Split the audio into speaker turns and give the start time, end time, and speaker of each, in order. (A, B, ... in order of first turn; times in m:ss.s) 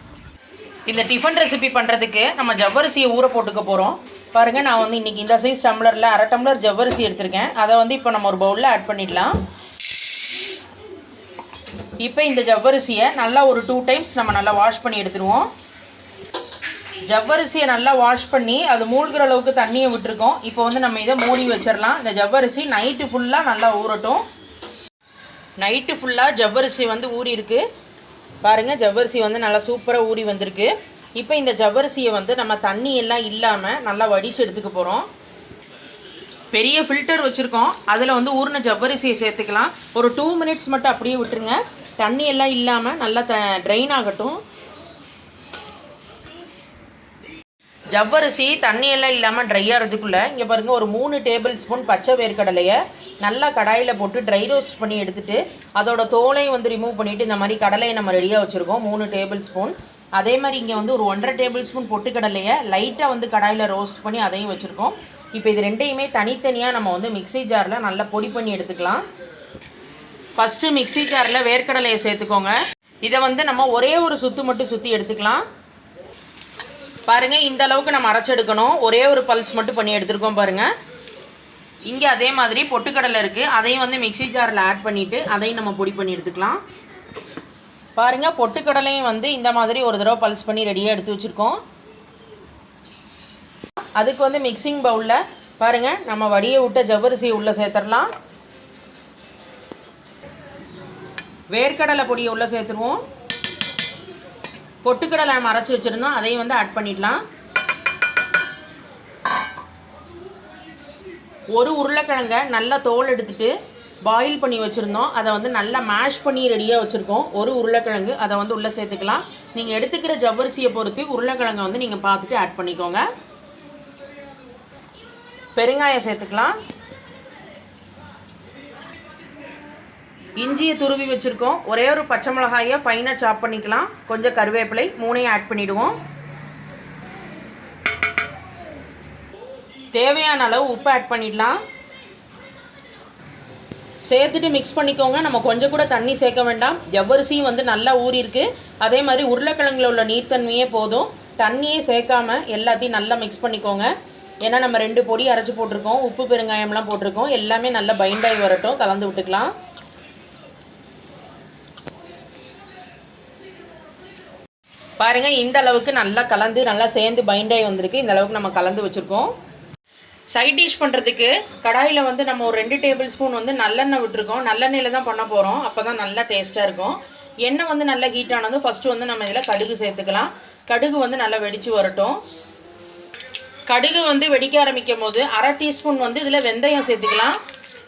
0:00.9-0:09.3 A
0:12.0-0:15.5 A
0:17.1-0:24.2 A
0:25.6-0:27.6 A
0:28.4-0:35.1 A
0:36.5-0:44.4 A
0:47.9-1:09.0 A
1:10.4-1:15.4 A
1:17.1-1:20.7 A
1:21.9-1:26.6 A
1:28.0-1:31.6 A
1:33.9-1:38.1 A
1:41.5-1:43.0 A
1:44.8-1:47.2 A
1:51.5-1:53.5 A
1:54.0-2:03.0 A
2:05.5-2:06.6 A
2:10.4-2:16.0 A
2:19.9-2:21.6 A
2:24.0-2:33.9 A
2:34.4-2:39.5 A
2:45.0-2:49.3 A
2:50.3-3:02.2 A
3:03.7-3:07.4 A